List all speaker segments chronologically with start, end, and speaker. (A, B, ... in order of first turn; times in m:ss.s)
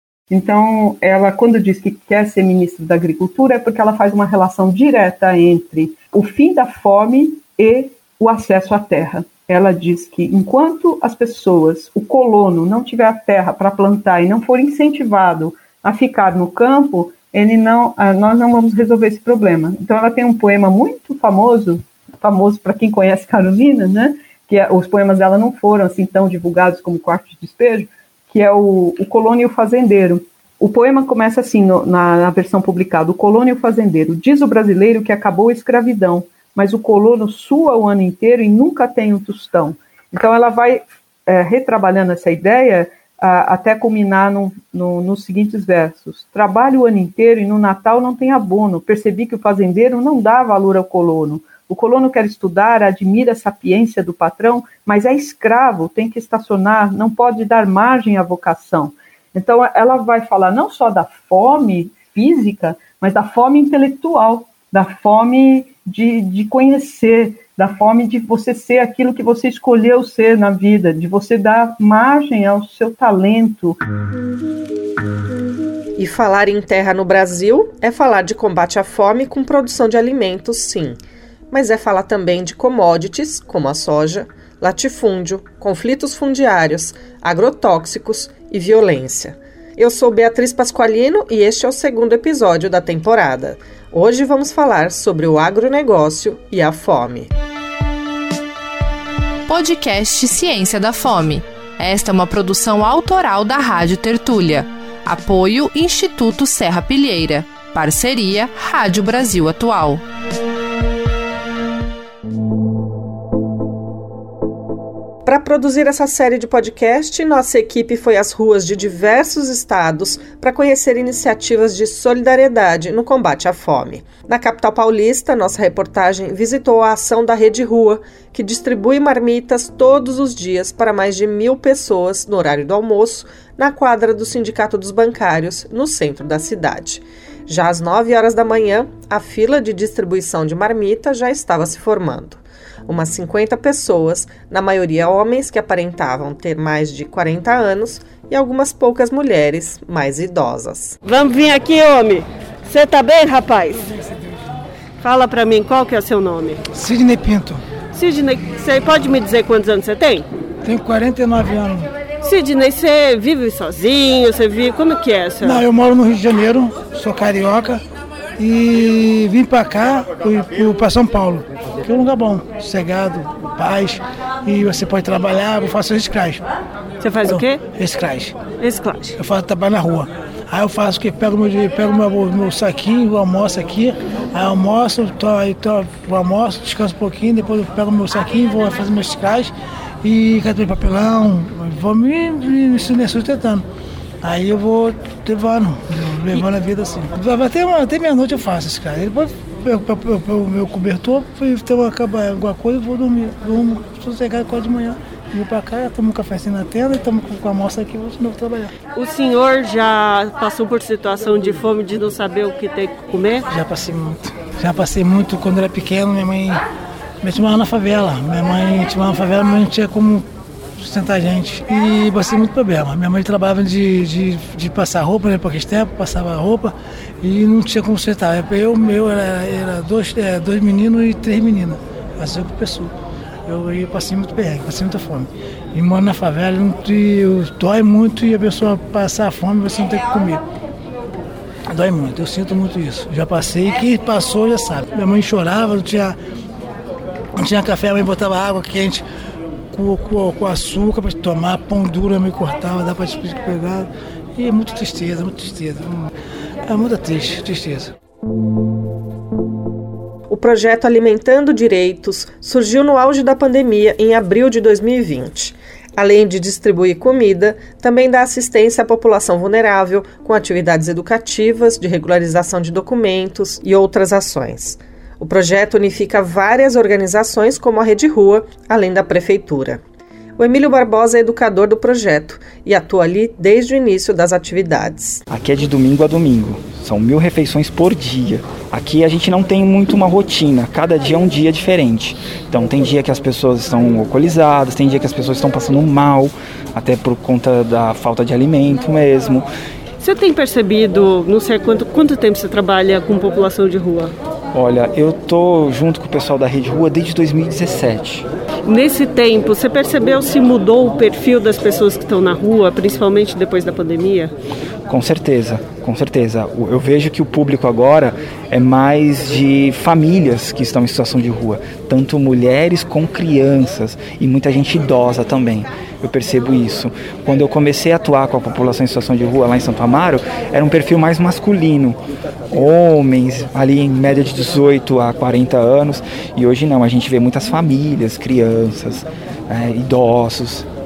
0:00.3-1:13.8 A
1:16.0-1:21.0 B
1:21.5-1:37.3 B
1:39.5-1:50.0 C
1:55.2-2:31.0 B
2:31.0-2:33.9 D
2:35.0-2:36.6 D
2:36.7-2:37.6 E
2:37.9-2:40.3 D
2:40.6-2:41.9 E
2:42.2-2:45.6 D
2:45.4-2:47.8 E
2:48.4-2:56.4 E
2:57.0-2:57.6 D
2:57.2-2:58.4 E
2:58.6-2:59.2 D
2:59.2-3:13.7 E
3:14.2-3:28.7 E
3:29.0-3:33.5 D
3:33.5-3:36.6 E
3:37.2-3:40.3 E
3:40.8-3:52.9 E
3:53.5-4:00.4 E
4:01.7-4:06.2 E
4:07.4-4:09.0 E
4:09.7-4:16.1 E
4:16.7-4:17.9 E
4:20.3-4:39.8 B
4:40.4-4:45.2 B
4:45.3-4:59.5 F
5:00.0-5:04.1 D
5:04.5-5:08.2 F
5:08.6-5:14.3 D
5:14.9-5:32.0 F
5:32.5-5:40.7 F